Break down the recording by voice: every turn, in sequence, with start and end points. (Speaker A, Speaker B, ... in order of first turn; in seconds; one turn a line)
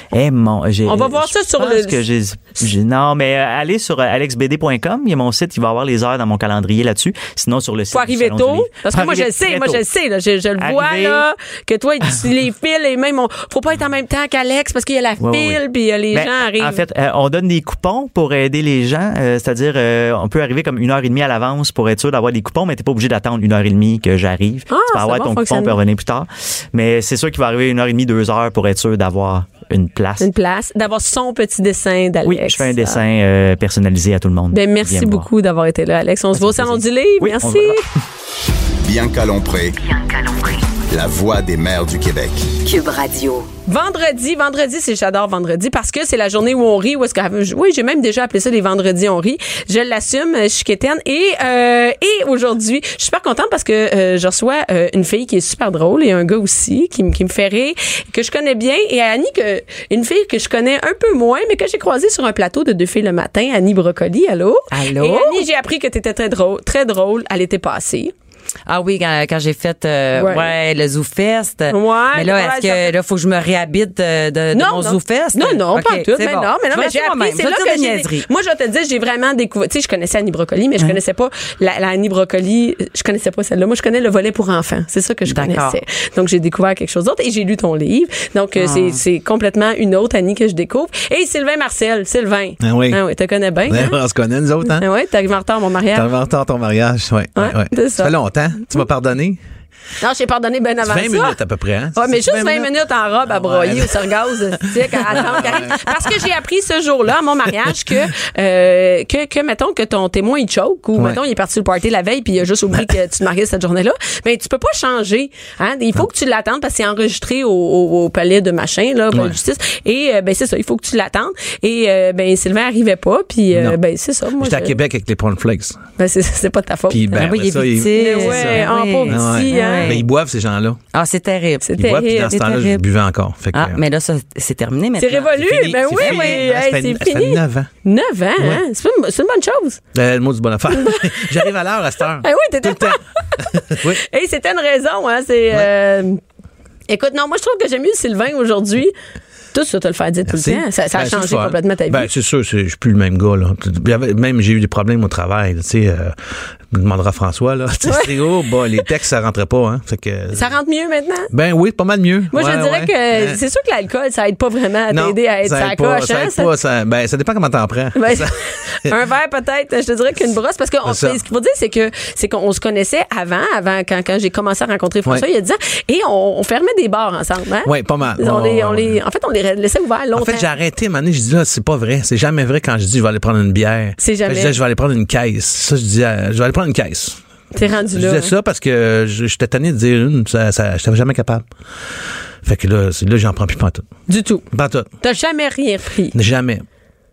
Speaker A: 0.1-9.8
Speaker B: 0.9-2.0
Speaker B: 7.9-16.8
Speaker A: 10.6-11.2
Speaker A: 15.2-15.6
Speaker A: 16.1-30.3
Speaker B: 24.7-25.8
Speaker B: 30.2-33.0
Speaker A: 32.2-35.3
Speaker B: 34.5-37.9
Speaker A: 36.4-37.8
Speaker C: 38.8-39.8
Speaker D: 39.8-40.8
Speaker C: 40.9-42.5
Speaker D: 42.5-43.5
Speaker B: 43.7-68.1
Speaker E: 64.7-65.4
Speaker E: 68.7-78.3
Speaker B: 70.2-70.5
Speaker B: 71.7-72.9
Speaker B: 74.5-94.0
Speaker E: 85.3-85.8
Speaker E: 88.6-89.0
Speaker F: 92.6-93.0
Speaker F: 93.7-94.8
Speaker B: 94.7-96.1
Speaker F: 95.9-99.4
Speaker B: 97.4-98.1
Speaker B: 100.0-101.4
Speaker F: 100.8-102.7
Speaker B: 102.0-124.8
Speaker F: 103.3-106.2
Speaker F: 119.1-119.4
Speaker F: 123.5-123.8
Speaker F: 124.4-125.8
Speaker B: 126.0-127.3
Speaker F: 126.9-130.8
Speaker E: 127.2-130.1
Speaker B: 127.9-130.0
Speaker E: 130.9-131.7
Speaker B: 131.6-132.4
Speaker F: 131.8-133.8
Speaker E: 132.2-132.8
Speaker E: 133.5-135.3
Speaker B: 135.0-139.8
Speaker F: 135.3-137.7
Speaker E: 135.9-136.4
Speaker F: 139.9-144.0
Speaker B: 140.7-141.5
Speaker B: 142.2-146.2
Speaker B: 146.9-148.9
Speaker B: 149.5-152.1
Speaker F: 150.3-160.6
Speaker B: 157.9-158.1
Speaker B: 160.3-161.3
Speaker F: 161.3-163.4
Speaker B: 162.3-166.5
Speaker F: 164.9-168.9
Speaker B: 167.9-180.5
Speaker F: 170.8-171.2
Speaker F: 177.7-179.0
Speaker F: 180.1-187.2
Speaker B: 184.0-184.6
Speaker B: 187.5-188.3
Speaker F: 187.9-191.4
Speaker F: 192.4-193.9
Speaker B: 194.1-194.5
Speaker F: 194.5-194.9
Speaker B: 195.0-196.2
Speaker F: 196.1-196.7